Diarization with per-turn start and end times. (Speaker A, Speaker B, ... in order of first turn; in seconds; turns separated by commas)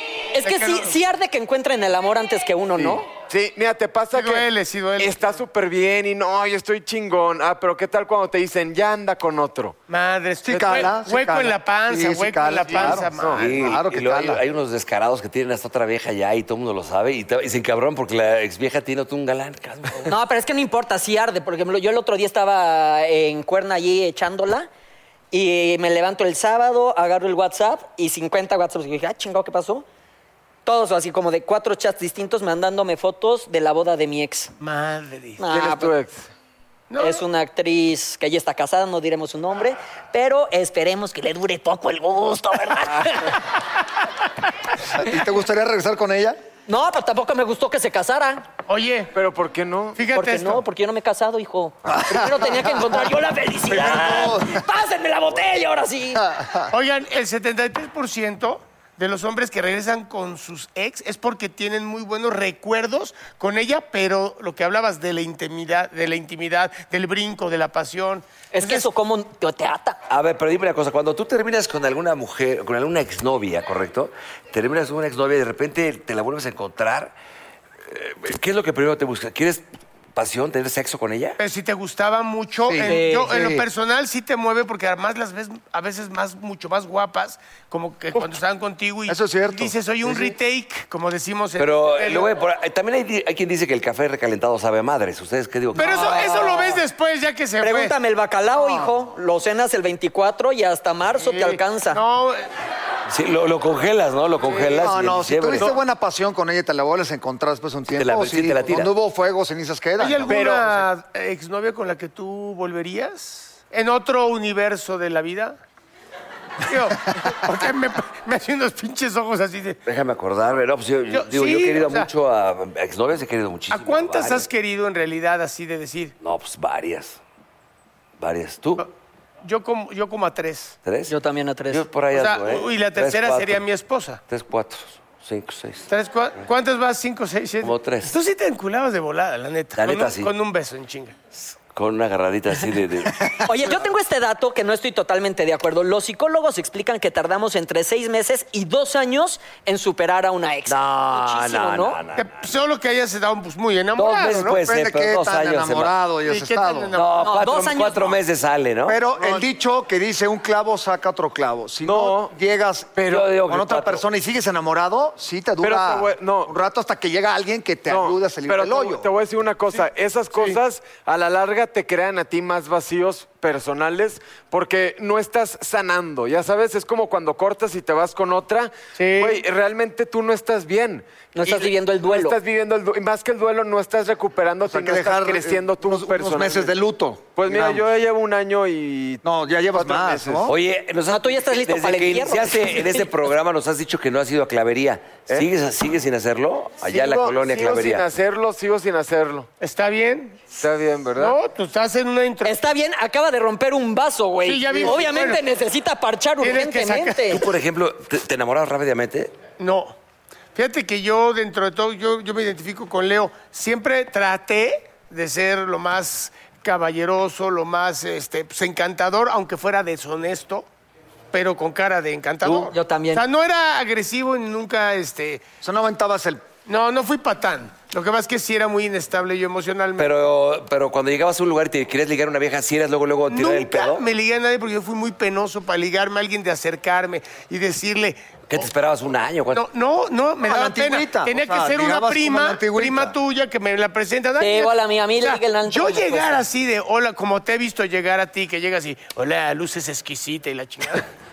Speaker A: 0.3-3.1, Speaker B: 0.4-1.0, Speaker C: 2.8-9.8, Speaker B: 4.1-5.4, Speaker B: 9.9-13.8, Speaker D: 10.5-14.4, Speaker C: 10.5-10.9, Speaker C: 12.7-13.4, Speaker E: 13.4-20.1, Speaker A: 20.0-24.7, Speaker A: 25.3-29.9, Speaker A: 30.6-34.5, Speaker B: 34.6-35.4, Speaker A: 35.4-35.9, Speaker C: 35.5-36.3, Speaker B: 36.9-37.2, Speaker A: 37.0-43.4, Speaker D: 45.0-46.4, Speaker A: 46.7-48.5, Speaker B: 48.7-49.1, Speaker C: 49.1-50.0, Speaker B: 50.0-50.6, Speaker A: 50.1-56.2, Speaker D: 51.9-52.7, Speaker D: 53.7-54.6, Speaker D: 56.2-56.7, Speaker B: 56.7-68.9, Speaker A: 68.5-70.0, Speaker E: 70.1-77.1, Speaker E: 77.9-81.4, Speaker B: 81.4-92.3, Speaker D: 82.7-83.0, Speaker A: 82.8-83.5, Speaker D: 89.1-90.3, Speaker E: 91.6-96.2, Speaker B: 95.7-97.9, Speaker A: 95.8-96.8, Speaker A: 97.6-102.0, Speaker B: 101.2-102.5, Speaker E: 103.1-105.7, Speaker B: 104.4-104.9, Speaker D: 104.7-110.3, Speaker E: 107.9-108.9, Speaker B: 110.0-115.6, Speaker C: 110.3-110.8, Speaker B: 116.7-119.8, Speaker E: 119.8-124.5, Speaker B: 121.1-122.1, Speaker B: 123.7-126.1, Speaker E: 126.2-127.2, Speaker E: 128.2-128.8, Speaker B: 129.4-130.8, Speaker E: 130.8-131.1, Speaker A: 131.1-131.8, Speaker E: 131.7-133.6, Speaker B: 132.1-134.2, Speaker E: 134.3-135.9, Speaker B: 135.9-141.2, Speaker E: 137.6-138.1, Speaker E: 139.8-140.3, Speaker E: 141.4-143.4, Speaker A: 143.4-152.0, Speaker E: 150.7-152.3, Speaker B: 152.2-154.6, Speaker E: 153.9-156.0, Speaker D: 154.4-156.9, Speaker B: 156.2-157.5, Speaker E: 156.9-159.1, Speaker A: 157.2-158.2, Speaker D: 158.8-169.1, Speaker C: 161.8-162.3, Speaker C: 162.9-163.3, Speaker E: 163.1-164.0, Speaker C: 165.6-166.5, Speaker C: 167.9-186.7, Speaker B: 179.0-179.4, Speaker A: 181.3-182.4, Speaker D: 184.7-187.9, Speaker C: 187.3-190.5, Speaker D: 189.2-190.5, Speaker E: 190.4-198.0, Speaker A: 191.1-193.1, Speaker C: 196.9-199.5, Speaker B: 199.6-200.4, Speaker C: 200.6-201.4, Speaker B: 201.2-202.7, Speaker A: 202.4-207.4, Speaker B: 204.4-205.4, Speaker B: 206.4-207.4, Speaker E: 207.3-209.4, Speaker B: 209.6-209.9, Speaker B: 210.5-220.7, Speaker B: 221.3-225.4, Speaker A: 222.4-223.2, Speaker D: 225.6-226.4, Speaker B: 226.7-230.1, Speaker E: 230.0-234.0, Speaker B: 233.3-238.7, Speaker E: 238.5-239.7, Speaker B: 239.5-251.1, Speaker D: 240.4-243.1, Speaker A: 244.4-246.4